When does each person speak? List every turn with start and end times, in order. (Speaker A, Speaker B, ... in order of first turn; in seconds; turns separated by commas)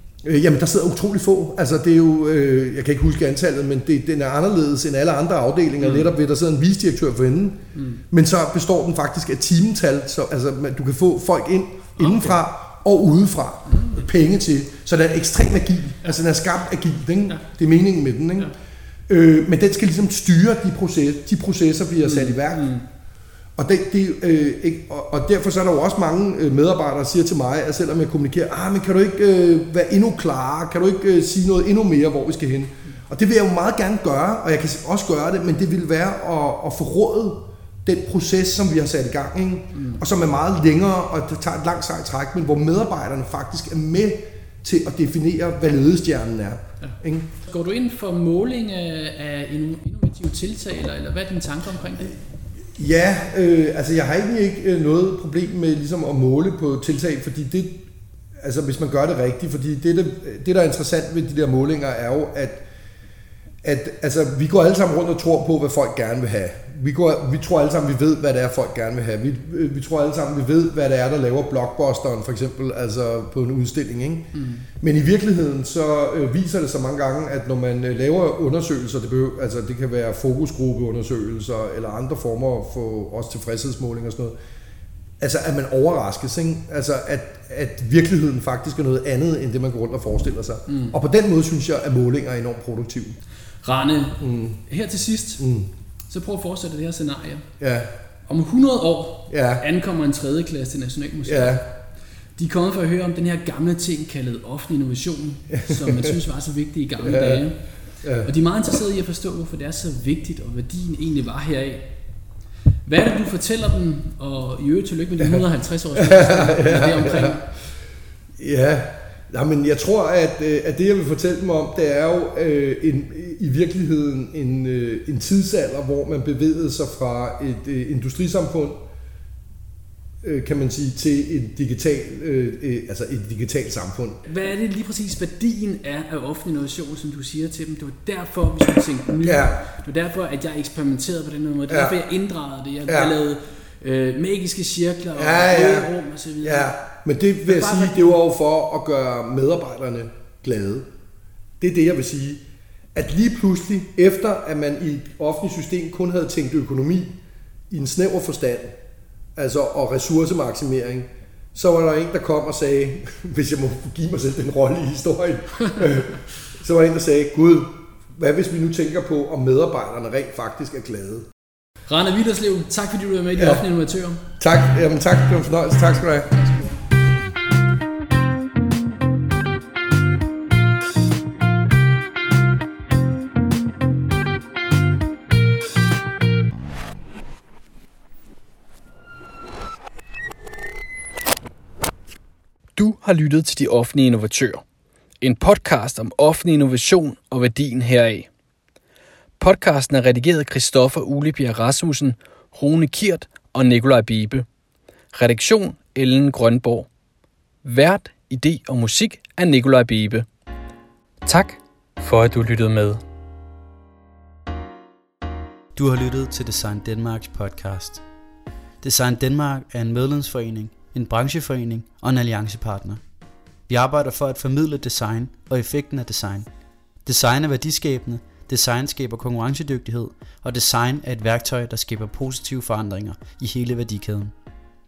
Speaker A: 0.2-7.6, Speaker B: 5.8-6.1, Speaker B: 7.8-8.0, Speaker A: 8.1-18.5, Speaker B: 12.0-12.4, Speaker B: 13.7-14.0, Speaker A: 19.1-22.8, Speaker B: 22.0-22.8, Speaker A: 23.6-47.3, Speaker B: 39.7-40.0, Speaker B: 46.8-52.2, Speaker A: 52.8-57.9, Speaker A: 58.4-62.6, Speaker A: 63.6-84.3, Speaker B: 74.3-74.7, Speaker A: 85.2-93.2, Speaker B: 90.7-91.0, Speaker B: 93.6-95.4, Speaker A: 94.2-94.6, Speaker A: 95.4-95.7, Speaker B: 96.1-97.5, Speaker A: 97.6-97.9, Speaker B: 98.3-101.6, Speaker A: 99.3-99.6, Speaker A: 101.2-101.7, Speaker B: 102.4-107.6, Speaker A: 105.5-106.2, Speaker A: 107.0-107.5, Speaker A: 108.0-108.3, Speaker B: 108.2-111.9, Speaker B: 112.9-117.5, Speaker A: 115.9-117.4, Speaker A: 118.4-128.8, Speaker A: 130.2-134.2, Speaker B: 134.2-146.8, Speaker A: 139.2-139.6, Speaker A: 141.7-142.0, Speaker A: 142.9-143.1, Speaker A: 145.2-145.9, Speaker A: 146.4-150.9, Speaker B: 147.5-148.2, Speaker A: 151.6-152.4, Speaker A: 152.9-157.1, Speaker A: 157.7-158.8, Speaker A: 159.4-171.3, Speaker B: 171.9-174.2, Speaker A: 173.4-173.6, Speaker A: 174.4-176.4, Speaker B: 192.8-194.6, Speaker B: 195.2-198.3, Speaker B: 199.4-204.5, Speaker B: 205.1-206.9, Speaker B: 207.6-210.3, Speaker B: 211.2-213.0, Speaker C: 215.8-218.0, Speaker C: 218.8-223.0, Speaker C: 223.7-226.5, Speaker C: 227.1-234.3